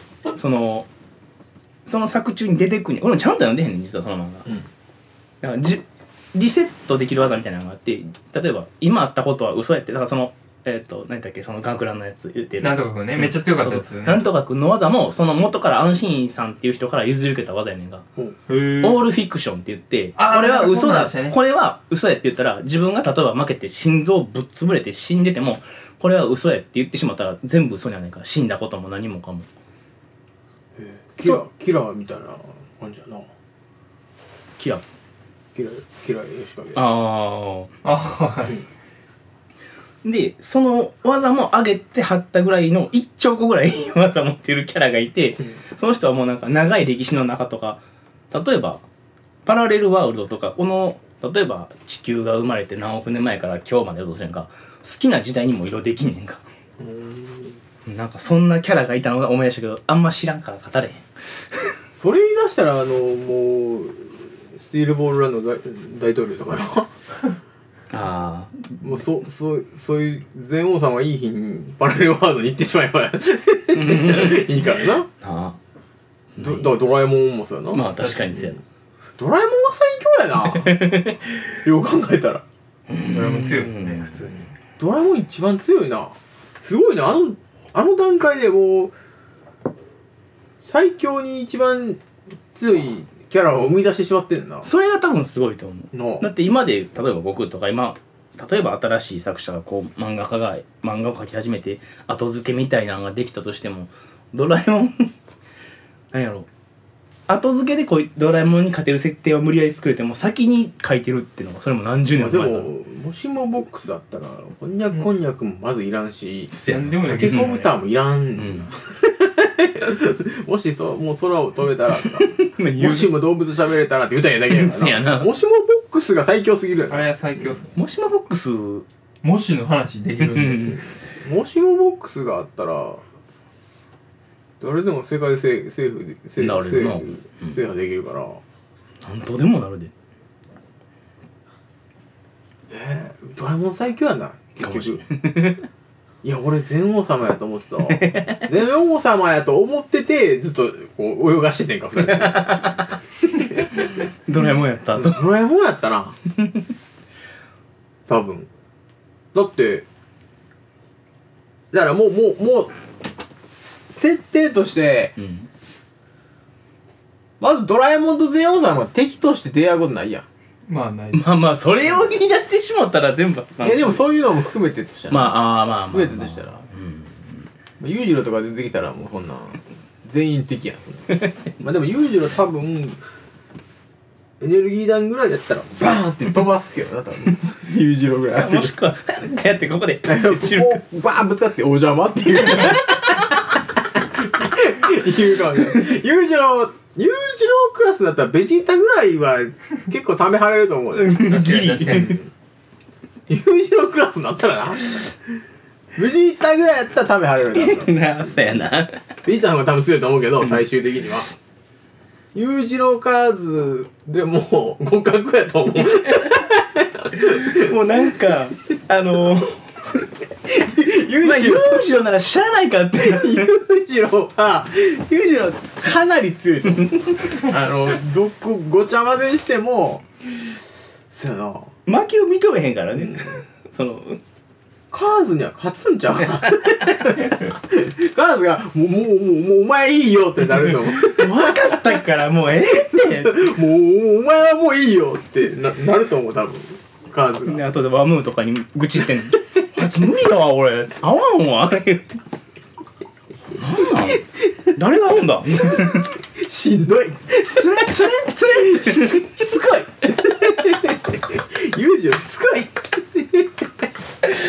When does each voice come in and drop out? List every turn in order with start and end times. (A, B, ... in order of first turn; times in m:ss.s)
0:00.4-0:00.9 A
0:01.8-0:04.5 A
0:05.4-0:18.0 A
0:12.6-0:14.3 B
0:18.5-0:19.1 B
0:18.7-0:29.5 A
0:20.2-0:21.4 B
0:30.8-0:33.3 C
0:34.6-0:34.8 A
0:35.5-0:36.8 C
0:36.7-0:37.7 A
0:37.8-0:38.6 B
0:40.0-0:48.8 A
0:49.4-0:56.4 A
0:56.8-0:57.6 C
0:57.8-1:01.0 A
1:02.0-1:06.9 C
1:07.9-1:08.9 A
1:08.8-1:15.1 C
1:13.7-1:15.6 A
1:16.4-1:16.7 A
1:16.4-1:18.6 C
1:17.7-1:18.6 A
1:19.2-1:22.4 C
1:20.5-1:21.3 A
1:22.9-1:24.4 A
1:23.1-1:24.4 B
1:24.8-1:28.9 C
1:30.6-1:32.0 C
1:32.6-1:34.7 C
1:34.6-1:45.1 A
1:35.9-1:36.3 C
1:46.1-1:46.5 A
1:47.3-1:52.7 A
1:52.1-1:56.5 C
1:56.5-1:57.6 A
1:56.7-1:57.7 B
1:57.0-2:07.6 C
1:58.4-1:58.7 A
2:02.0-2:03.1 A
2:04.5-2:05.3 A
2:06.9-2:07.7 B
2:07.7-2:08.8 A
2:09.2-2:10.8 B
2:10.2-2:10.8 A
2:11.1-2:13.0 C
2:14.6-2:18.4 C
2:16.4-2:17.6 A
2:19.0-2:19.9 A
2:22.7-2:25.0 C
2:24.6-2:25.6 A
2:26.2-2:33.9 C
2:27.9-2:28.5 A
2:32.0-2:35.3 A
2:34.9-2:36.2 C
2:36.4-2:36.6 A
2:38.1-2:38.5 C
2:39.3-2:39.9 C
2:41.7-2:42.7 C
2:43.9-2:45.1 C
2:45.2-2:45.5 A
2:47.4-2:50.3 C
2:50.7-2:51.3 B
2:51.1-2:54.0 A
2:53.6-2:56.6 C
2:55.1-2:57.2 A
2:57.8-3:03.0 C
3:01.1-3:01.5 A
3:04.4-3:08.8 C
3:08.3-3:10.8 A
3:10.0-3:21.2 C
3:20.9-3:22.2 A
3:21.2-3:22.2 B
3:21.9-3:22.2 C
3:23.3-3:25.2 C
3:25.9-3:28.0 C
3:27.5-3:29.0 A
3:29.2-3:31.3 C
3:32.3-3:38.4 C
3:35.8-3:36.4 A
3:37.2-3:39.6 A
3:40.4-3:41.9 C
3:41.2-3:43.5 A
3:42.9-3:50.6 C
3:46.9-3:47.4 A
3:51.1-3:51.7 C
3:51.8-3:54.2 A
3:52.9-3:53.4 C
3:54.9-4:07.6 C
4:00.6-4:03.4 A
4:07.4-4:12.2 A
4:09.6-4:09.9 C
4:13.5-4:16.1 A
4:14.0-4:14.7 C
4:15.7-4:24.4 C
4:17.5-4:19.4 A
4:20.2-4:20.7 A